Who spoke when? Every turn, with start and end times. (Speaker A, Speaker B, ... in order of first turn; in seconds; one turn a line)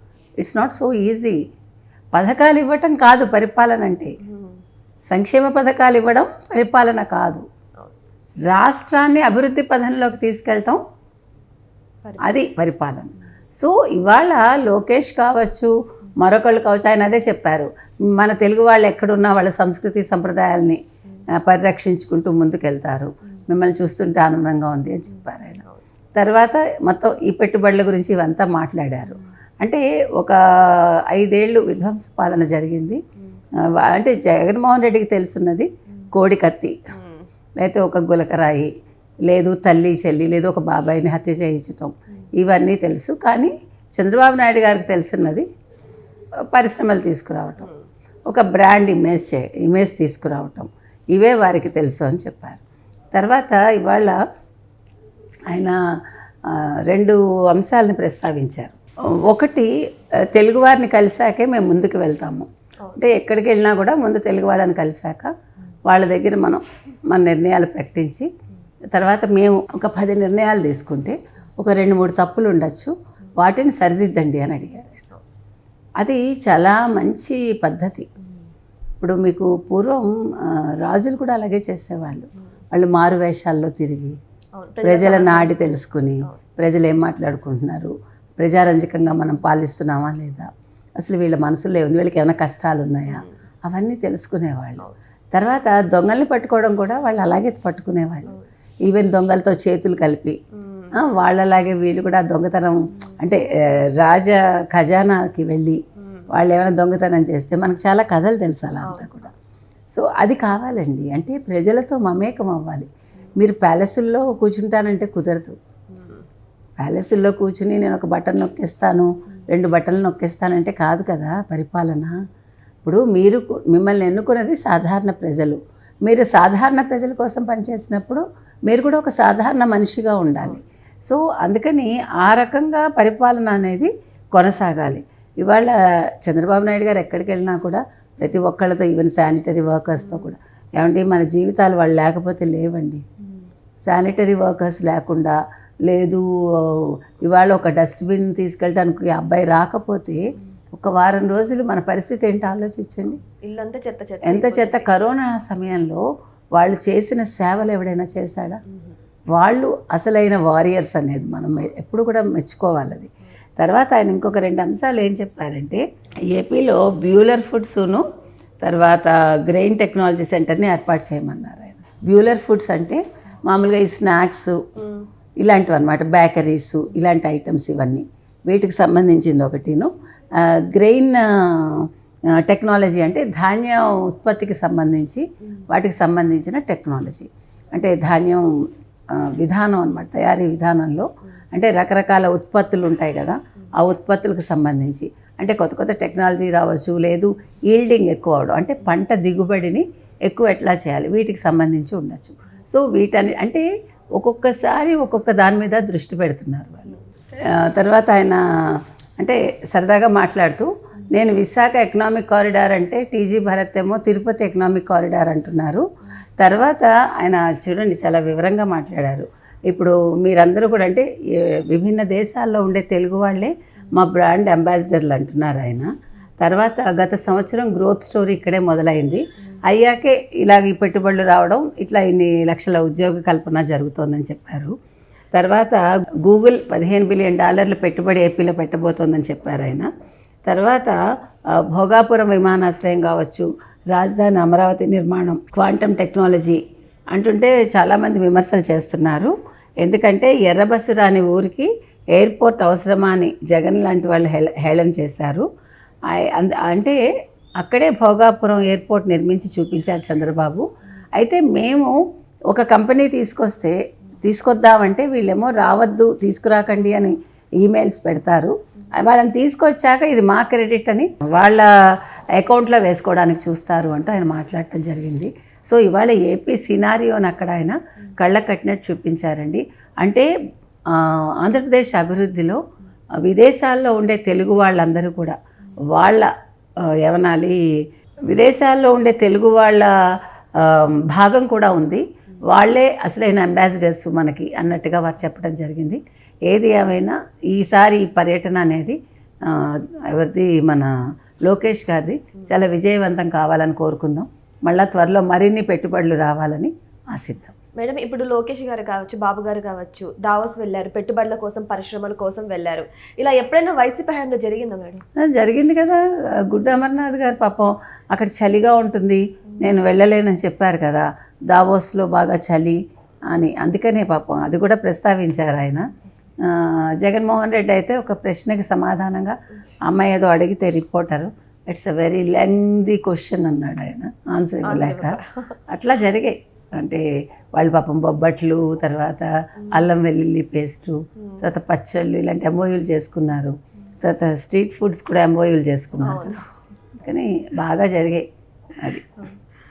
Speaker A: 0.4-1.4
Speaker A: 2.1-4.2
Speaker B: 4.2-4.6
Speaker A: 5.1-7.4
Speaker A: 8.4-10.8
Speaker B: 12.0-12.3
Speaker A: 12.2-20.8
Speaker A: 21.4-25.6
Speaker A: 26.1-33.0
Speaker A: 33.7-36.8
Speaker B: 36.9-37.3
Speaker A: 37.6-38.7
Speaker A: 39.3-45.5
Speaker A: 46.5-47.7
Speaker A: 48.3-52.6
Speaker A: 53.1-54.2
Speaker A: 55.5-55.8
Speaker A: 56.4-59.7
Speaker A: 60.3-65.3
Speaker A: 65.9-68.3
Speaker A: 68.9-75.0
Speaker A: 76.0-78.1
Speaker A: 79.0-84.2
Speaker B: 84.5-85.6
Speaker A: 84.8-90.5
Speaker A: 91.0-98.3
Speaker B: 93.1-93.4
Speaker A: 98.8-100.4
Speaker B: 100.5-101.0
Speaker A: 100.9-105.8
Speaker B: 106.0-106.3
Speaker A: 106.3-109.3
Speaker B: 108.8-109.3
Speaker A: 109.9-115.5
Speaker B: 115.9-116.2
Speaker A: 116.8-122.1
Speaker A: 122.8-143.0
Speaker B: 140.0-140.3
Speaker A: 143.9-150.2
Speaker A: 150.7-153.2
Speaker B: 153.4-154.9
Speaker A: 154.2-156.0
Speaker A: 156.6-158.6
Speaker B: 158.7-158.9
Speaker A: 159.3-168.0
Speaker A: 168.6-174.6
Speaker B: 174.8-175.1
Speaker A: 175.4-188.4
Speaker A: 189.1-203.6
Speaker A: 204.2-206.9
Speaker A: 207.5-215.8
Speaker A: 216.4-225.9
Speaker A: 226.4-234.8
Speaker A: 235.3-239.9
Speaker A: 240.5-241.0
Speaker A: 241.5-246.6
Speaker A: 247.1-255.4
Speaker A: 256.1-257.0
Speaker A: 257.6-260.6
Speaker A: 261.1-261.9
Speaker A: 262.5-271.7
Speaker A: 272.4-280.3
Speaker A: 280.9-282.6
Speaker A: 283.2-285.4
Speaker A: 285.9-286.3
Speaker A: 287.0-287.6
Speaker A: 288.3-289.9
Speaker A: 290.5-300.9
Speaker A: 301.4-307.5
Speaker B: 307.8-315.0
Speaker A: 315.2-322.8
Speaker B: 319.5-319.8
Speaker A: 323.3-325.9
Speaker A: 326.4-329.4
Speaker A: 329.9-335.2
Speaker B: 334.6-335.5
Speaker A: 335.7-337.0
Speaker A: 337.6-346.4
Speaker B: 339.6-339.9
Speaker B: 341.2-341.5
Speaker B: 346.0-346.4
Speaker A: 347.0-348.2
Speaker A: 348.8-349.2